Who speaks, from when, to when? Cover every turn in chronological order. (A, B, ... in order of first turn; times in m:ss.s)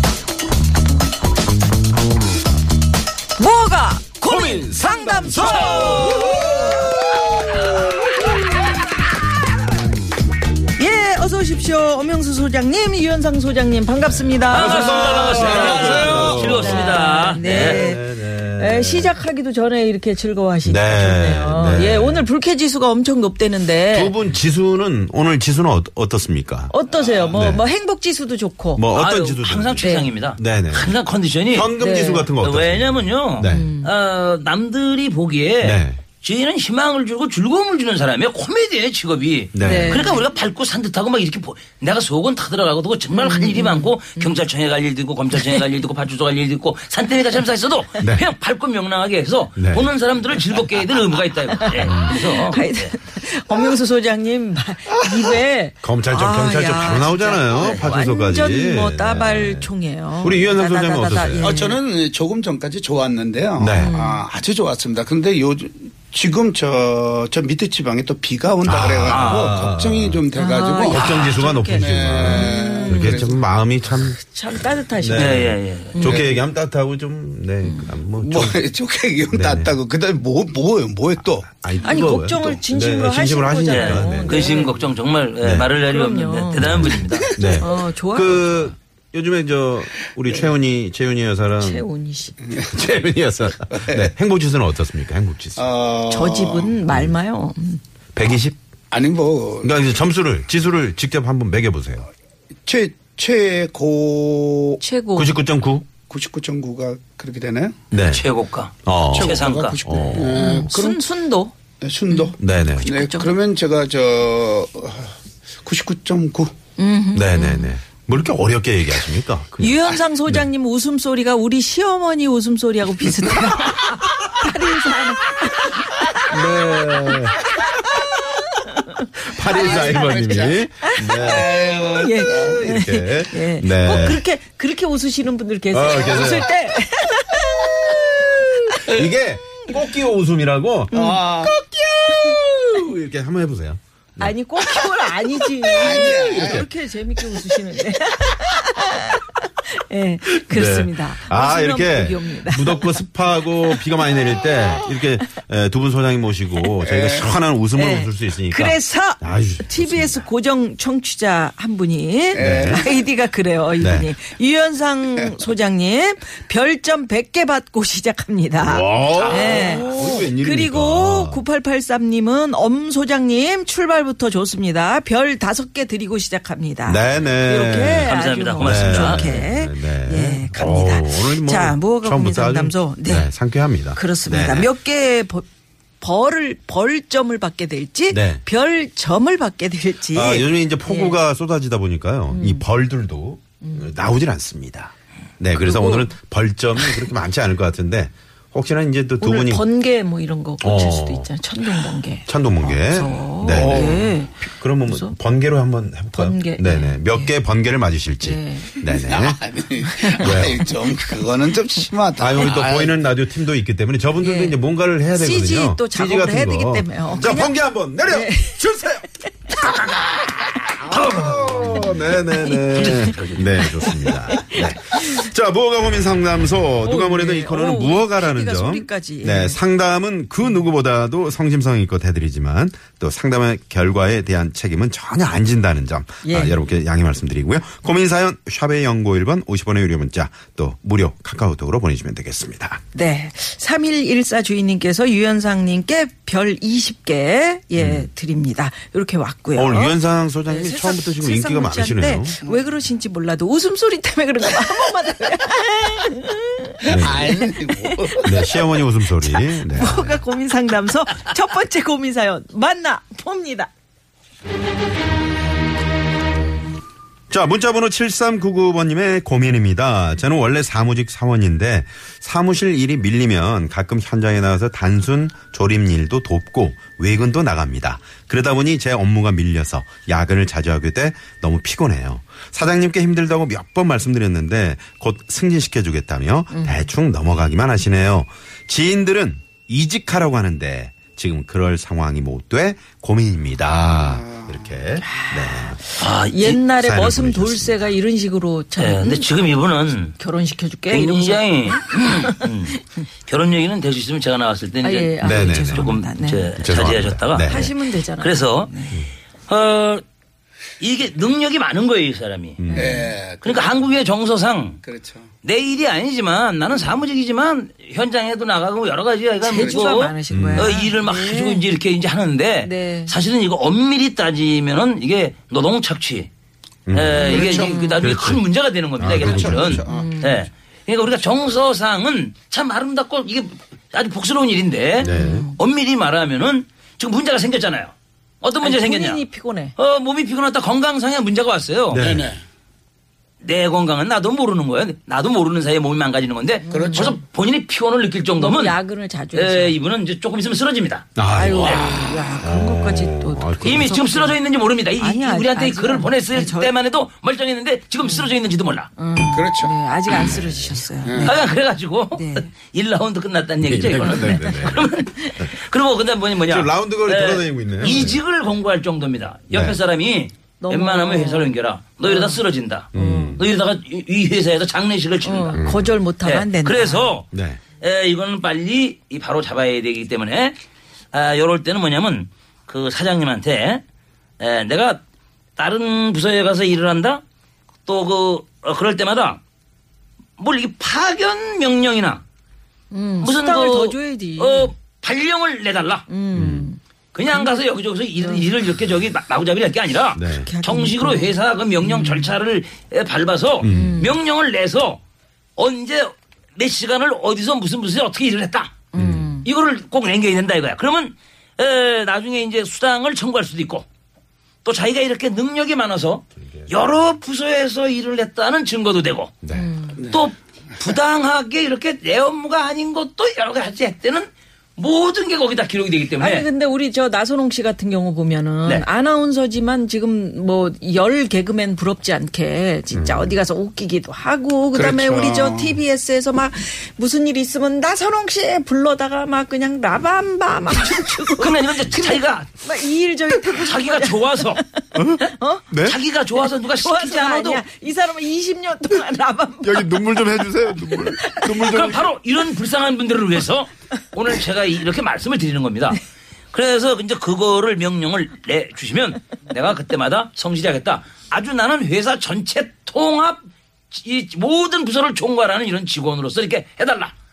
0:03.4-0:07.0 A
0:04.2-0:08.1 B
0:10.8-0:24.2 A
0:14.0-0:19.2 B
0:14.5-0:17.8 C
0:20.6-0:22.3 B
0:23.9-0:26.7 B
0:26.7-0:28.9 A
0:26.9-0:27.2 D
0:27.3-0:27.7 B
0:28.8-0:31.0 B
0:28.9-0:31.8 C
0:29.8-0:30.1 A
0:31.5-0:33.7 B
0:31.8-0:32.3 A
0:32.4-0:53.0 C
0:33.5-0:33.9 A
0:35.6-0:36.0 B
0:39.5-0:40.0 B
0:39.6-0:40.2 A
0:43.1-0:44.3 A
0:48.0-0:48.3 B
0:49.6-0:49.9 B
0:51.5-1:01.8 A
0:51.8-0:52.2 B
0:55.8-1:01.7 B
0:57.6-0:58.0 C
1:01.4-1:13.4 D
1:03.6-1:04.0 B
1:03.7-1:04.2 A
1:08.6-1:10.2 B
1:09.1-1:09.6 C
1:10.3-1:13.4 A
1:10.8-1:18.6 B
1:14.2-1:15.4 A
1:15.2-1:16.0 C
1:15.9-1:16.4 A
1:16.0-1:16.3 D
1:17.6-1:17.9 A
1:18.2-1:21.5 D
1:19.3-1:19.7 B
1:21.4-1:24.7 B
1:21.8-1:24.7 A
1:23.7-1:27.3 C
1:25.4-1:25.7 B
1:25.8-1:27.0 A
1:26.6-1:31.9 B
1:27.1-1:27.6 D
1:27.5-1:28.6 A
1:31.6-1:32.4 A
1:32.4-1:32.7 D
1:32.7-1:35.6 B
1:33.7-1:34.1 D
1:35.6-1:36.8 D
1:36.1-1:37.8 A
1:36.9-1:37.2 B
1:38.2-1:38.6 B
1:38.9-1:39.7 D
1:39.6-1:42.1 B
1:42.7-1:44.8 D
1:44.8-1:45.4 A
1:45.2-1:45.9 B
1:46.1-1:47.8 D
1:47.9-1:48.3 B
1:48.1-1:49.8 C
1:48.8-1:50.5 B
1:49.1-1:51.0 D
1:50.1-1:51.6 A
1:51.8-1:56.5 D
1:52.1-1:53.3 A
1:52.4-1:52.9 B
1:56.8-1:57.7 A
1:57.1-2:00.5 B
1:59.6-2:06.4 A
2:06.3-2:07.6 B
2:08.0-2:10.2 A
2:09.2-2:11.5 B
2:09.5-2:10.6 D
2:10.8-2:19.0 A
2:11.2-2:12.6 D
2:12.2-2:14.2 B
2:15.7-2:16.5 B
2:18.8-2:24.3 B
2:20.9-2:21.2 A
2:20.9-2:21.6 D
2:24.2-2:33.0 A
2:25.7-2:26.6 D
2:25.8-2:26.7 B
2:30.4-2:40.3 B
2:36.8-2:37.3 D
2:37.7-3:03.3 A
2:42.3-2:42.9 D
2:42.4-2:42.8 B
2:43.8-2:44.1 B
2:48.6-2:51.4 B
2:49.0-2:49.8 C
2:49.6-2:50.1 D
2:56.8-3:04.7 B
2:58.0-2:59.4 C
3:03.9-3:05.5 A
3:06.0-3:11.2 A
3:08.1-3:08.4 B
3:10.1-3:19.6 B
3:12.3-3:12.6 A
3:13.6-3:13.9 A
3:15.5-3:16.1 A
3:16.8-3:17.1 A
3:19.2-3:25.2 A
3:20.6-3:21.3 B
3:22.3-3:29.4 B
3:23.5-3:24.1 D
3:26.1-3:27.3 A
3:28.2-3:29.0 A
3:28.9-3:33.0 D
3:29.9-3:31.3 A
3:30.2-3:30.6 B
3:32.2-3:40.1 B
3:34.2-3:39.3 A
3:40.6-4:02.8 B
3:40.9-3:41.8 C
3:41.5-3:42.9 A
3:42.7-3:43.7 C
3:43.6-3:45.3 A
3:46.8-3:49.6 A
3:56.2-3:56.6 A
4:02.9-4:18.6 A
4:07.8-4:08.1 B
4:09.6-4:12.4 B
4:16.8-4:18.4 D
4:16.9-4:17.4 B
4:18.2-4:20.2 B
4:19.2-4:23.7 A
4:27.3-4:55.8 B
4:46.5-4:46.8 A
4:53.9-4:54.5 D
4:55.0-4:59.3 A
4:56.0-4:56.6 C
4:56.7-4:57.9 B
4:58.8-5:00.2 C
5:00.2-5:02.5 A
5:00.9-5:08.9 C
5:04.8-5:06.5 A
5:05.2-5:06.0 B
5:06.5-5:07.7 B
5:07.3-5:09.1 A
5:09.5-5:10.0 C
5:10.8-5:12.6 C
5:12.6-5:13.0 B
5:12.7-5:13.1 A
5:12.8-5:13.9 D
5:13.4-5:14.8 C
5:14.8-5:15.3 D
5:15.4-5:26.3 C
5:19.4-5:21.6 A
5:19.6-5:19.9 D
5:20.3-5:20.8 B
5:22.6-5:23.1 A
5:26.9-5:29.9 B
5:26.9-5:39.2 C
5:27.3-5:27.8 D
5:27.3-5:28.1 A
5:29.2-5:30.2 D
5:29.9-5:30.5 A
5:35.0-5:35.5 B
5:35.0-5:35.6 A
5:38.6-5:39.8 A
5:39.8-5:42.1 C
5:41.9-5:42.3 B
5:42.0-5:42.4 D
5:43.4-5:48.8 C
5:46.6-5:47.2 A
5:46.7-5:47.2 D
5:48.4-5:49.8 A
5:49.3-5:52.0 C
5:51.2-5:53.9 B
5:51.3-5:54.4 A
5:53.6-5:58.9 C
5:55.0-5:56.7 A
5:58.0-5:58.3 A
5:59.0-6:01.5 A
5:59.2-5:59.7 D
6:00.1-6:00.8 B
6:01.0-6:01.3 D
6:01.2-6:15.6 C
6:02.1-6:02.5 A
6:03.6-6:04.9 B
6:04.1-6:05.4 A
6:06.4-6:08.2 B
6:09.5-6:09.8 B
6:10.6-6:11.5 A
6:12.0-6:13.5 A
6:12.9-6:13.5 B
6:15.2-6:17.1 A
6:15.5-6:16.0 B
6:16.2-6:20.6 C
6:17.3-6:17.6 B
6:21.1-6:23.8 C
6:24.4-6:25.0 C
6:25.6-6:27.2 C
6:27.9-6:29.4 C
6:30.4-6:32.2 C
6:32.9-6:34.7 A
6:33.2-6:36.1 C
6:36.1-6:38.5 A
6:36.3-6:36.7 B
6:37.1-6:45.0 C
6:40.2-6:40.5 B
6:40.4-6:42.3 A
6:43.6-6:44.0 B
6:43.6-6:44.2 A
6:45.6-6:48.8 C
6:48.9-6:49.5 A
6:49.0-6:49.4 B
6:49.4-6:53.9 C
6:54.6-6:59.4 C
6:56.4-6:56.7 B
6:59.4-6:59.7 B
6:59.5-7:00.0 A
7:00.0-7:06.5 C
7:06.2-7:25.7 A
7:12.9-7:13.4 B
7:14.7-7:15.8 D
7:20.8-7:22.5 C
7:23.4-7:24.6 C
7:25.0-7:26.0 B
7:25.8-7:27.6 C
7:26.4-7:31.8 A
7:29.6-7:32.1 B
7:31.6-7:36.0 C
7:36.5-7:47.1 C